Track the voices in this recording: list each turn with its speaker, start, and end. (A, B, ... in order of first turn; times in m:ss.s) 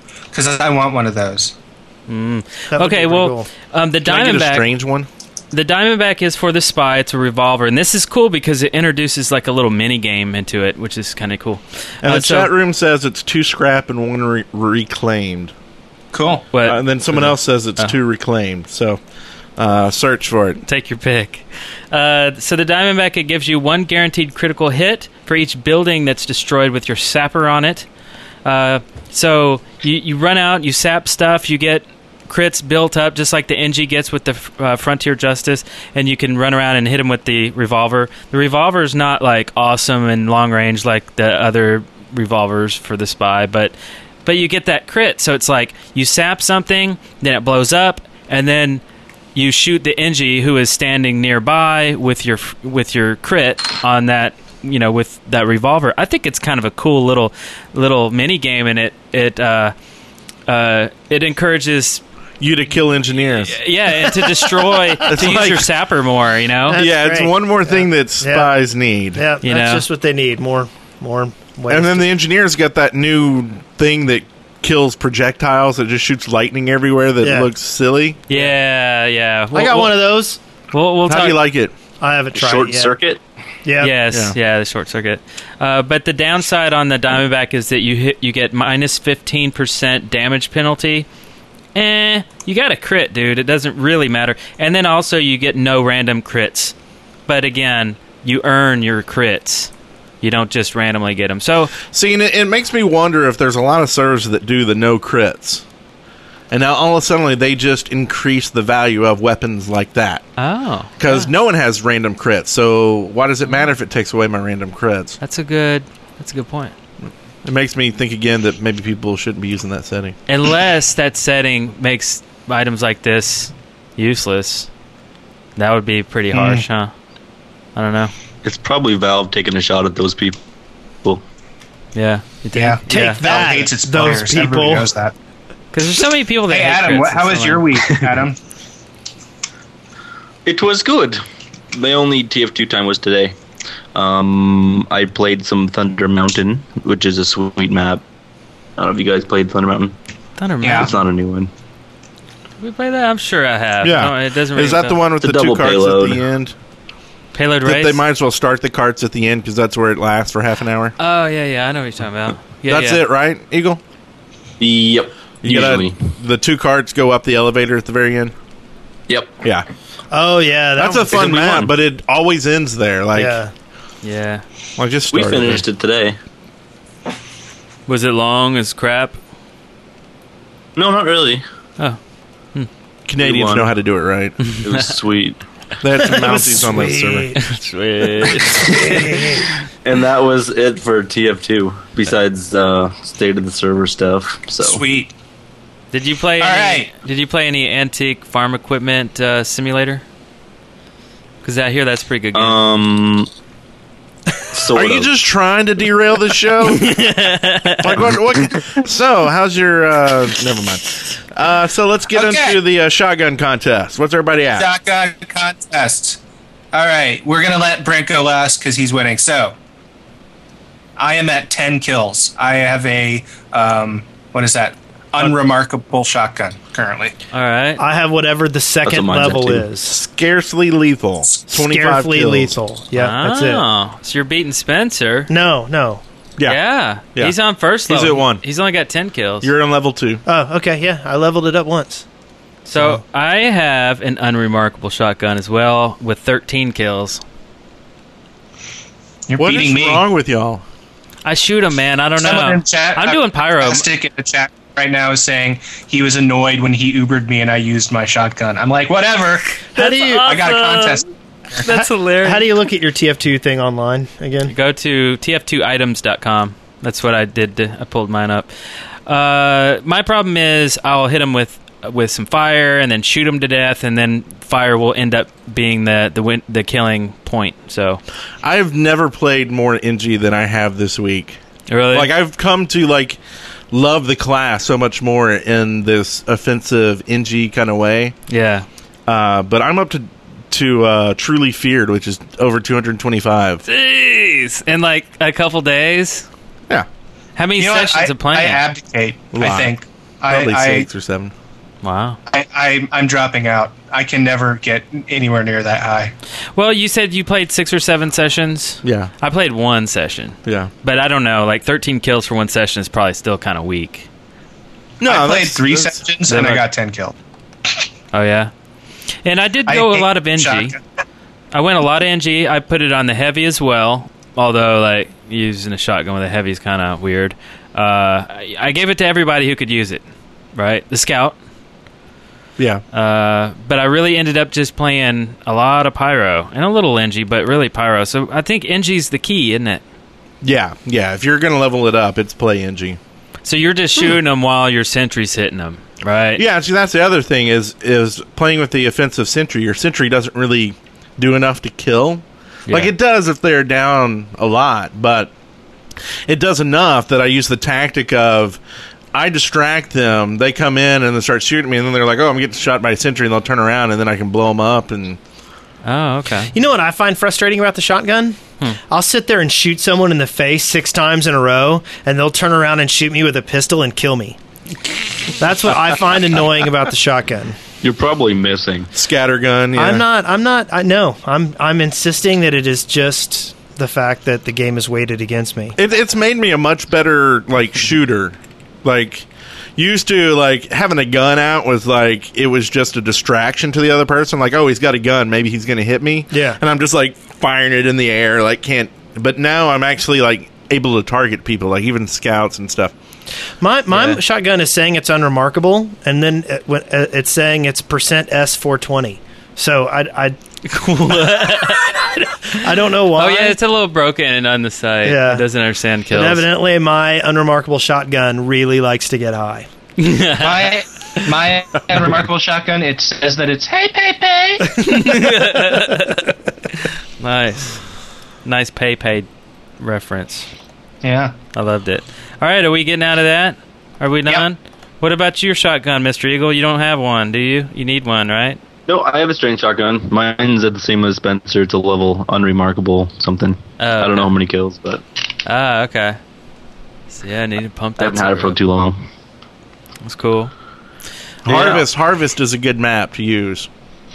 0:00.3-0:01.6 A
0:02.1-0:04.7 B
0:02.7-0:03.5 C
0:04.0-0:05.1 D
0:05.5-0:12.5 B
0:12.0-0:15.5 D
0:16.1-0:16.5 A
0:16.5-0:18.0 B
0:16.6-0:19.0 D
0:19.6-0:20.6 D
0:20.7-0:27.9 B
0:28.4-0:48.8 B
0:49.4-0:59.7 B
1:00.5-1:02.0 B
1:02.4-1:03.6 D
1:03.5-1:06.8 B
1:05.1-1:05.7 D
1:06.7-1:08.5 C
1:06.8-1:09.2 D
1:09.2-1:12.1 C
1:09.4-1:09.8 B
1:11.7-1:18.5 D
1:17.2-1:17.5 C
1:18.3-1:20.0 B
1:19.5-1:20.4 C
1:20.7-1:21.4 B
1:21.1-1:21.7 D
1:22.0-1:23.0 C
1:22.3-1:23.2 E
1:23.6-1:23.9 C
1:23.8-1:31.1 B
1:24.1-1:24.4 D
1:31.8-1:36.7 B
1:37.3-1:39.7 B
1:40.2-1:41.8 B
1:41.9-1:45.6 D
1:46.5-1:50.2 D
1:50.4-1:51.3 B
1:51.0-1:55.2 D
1:55.2-1:56.8 B
1:57.4-2:00.2 D
2:00.3-2:04.7 B
2:05.6-2:06.9 B
2:06.3-2:06.6 A
2:07.8-2:08.1 B
2:08.4-2:10.4 E
2:12.0-2:13.2 B
2:12.5-2:15.2 A
2:12.9-2:14.9 C
2:15.7-2:17.7 B
2:16.5-2:18.4 A
2:20.5-2:21.2 E
2:21.7-2:23.4 E
2:24.0-2:28.0 E
2:28.8-2:30.0 E
2:30.4-2:30.9 B
2:30.6-2:31.0 A
2:30.7-2:31.5 E
2:32.6-2:35.0 B
2:33.8-2:36.6 D
2:35.2-2:36.2 E
2:37.3-2:38.0 B
2:37.6-2:40.9 D
2:41.0-2:43.0 B
2:42.7-2:43.8 D
2:44.6-2:46.0 E
2:45.4-2:48.3 D
2:49.1-2:49.4 E
2:50.1-2:51.4 C
2:50.8-2:53.4 D
2:51.1-2:51.7 E
2:53.2-2:53.5 C
2:54.0-2:54.4 B
2:54.8-2:55.6 D
2:55.1-2:56.2 E
2:57.9-2:59.2 B
3:00.8-3:01.4 E
3:03.1-3:04.4 D
3:03.2-3:03.7 E
3:04.4-3:04.9 B
3:04.6-3:05.4 E
3:05.8-3:07.4 D
3:06.0-3:07.4 C
3:07.4-3:09.3 B
3:08.7-3:09.5 C
3:09.8-3:14.8 E
3:14.6-3:15.1 A
3:15.9-3:20.0 B
3:16.4-3:16.9 A
3:21.4-3:22.6 B
3:22.3-3:23.3 E
3:24.5-3:25.1 E
3:24.7-3:27.0 D
3:26.7-3:28.0 B
3:27.8-3:34.7 D
3:32.1-3:32.6 A
3:34.6-3:36.2 A
3:36.7-3:39.6 A
3:41.0-3:47.2 A
3:47.3-3:47.8 B
3:47.8-3:50.0 C
3:48.8-3:49.7 E
3:49.9-3:52.6 D
3:51.5-3:53.6 C
3:52.9-3:55.3 B
3:55.3-3:56.0 C
3:56.4-3:59.5 B
3:57.1-3:58.4 D
3:59.4-4:00.2 D
4:00.3-4:02.0 C
4:02.7-4:07.2 B
4:02.7-4:03.0 C
4:09.3-4:10.0 A
4:09.4-4:10.6 D
4:11.2-4:13.9 B
4:12.2-4:21.6 A
4:19.8-4:20.3 C
4:19.8-4:21.0 B
4:21.6-4:22.6 B
4:21.6-4:24.5 C
4:24.5-4:28.5 B
4:29.1-4:38.0 B
4:38.4-4:41.4 D
4:41.7-4:42.1 B
4:41.9-4:43.2 D
4:43.7-4:48.2 D
4:48.3-4:48.7 B
4:49.1-4:53.6 D
4:53.7-4:56.3 B
4:57.4-4:58.6 B
4:57.6-5:00.9 A
4:59.3-4:59.8 D
5:00.3-5:01.3 D
5:01.8-5:02.2 B
5:02.3-5:06.1 A
5:06.6-5:14.1 B
5:08.8-5:09.1 D
5:10.5-5:10.7 D
5:15.0-5:16.0 D
5:15.0-5:17.2 A
5:16.3-5:16.7 B
5:18.1-5:18.5 B
5:19.2-5:20.8 B
5:19.7-5:20.8 A
5:21.5-5:30.0 B
5:30.6-5:31.4 B
5:32.9-5:39.8 B
5:40.4-5:43.0 D
5:43.4-5:46.4 B
5:46.4-5:55.3 D
5:56.3-5:58.6 D
5:59.1-6:05.2 D
6:05.8-6:06.5 B
6:06.5-6:08.4 C
6:08.9-6:14.4 C
6:15.4-6:17.6 C
6:17.8-6:18.9 E
6:18.9-6:20.1 D
6:19.8-6:25.8 C
6:25.8-6:42.9 D
6:36.3-6:36.6 C
6:43.6-6:50.4 C
6:43.9-6:44.2 B
6:50.7-6:52.3 B
6:52.5-6:53.6 C
6:53.1-6:56.5 B
6:55.0-6:55.4 C
6:56.1-6:59.7 C
7:00.0-7:00.8 B
7:00.4-7:04.8 A
7:04.8-7:07.8 B
7:08.4-7:09.3 B
7:09.8-7:10.5 B
7:11.0-7:11.3 A
7:11.6-7:18.6 B
7:18.9-7:25.0 E
7:23.8-7:24.3 B
7:25.4-7:26.2 B
7:27.1-7:28.6 B
7:28.0-7:29.0 E
7:30.0-7:30.5 B
7:31.4-7:33.7 D
7:31.5-7:31.8 A
7:31.5-7:31.8 B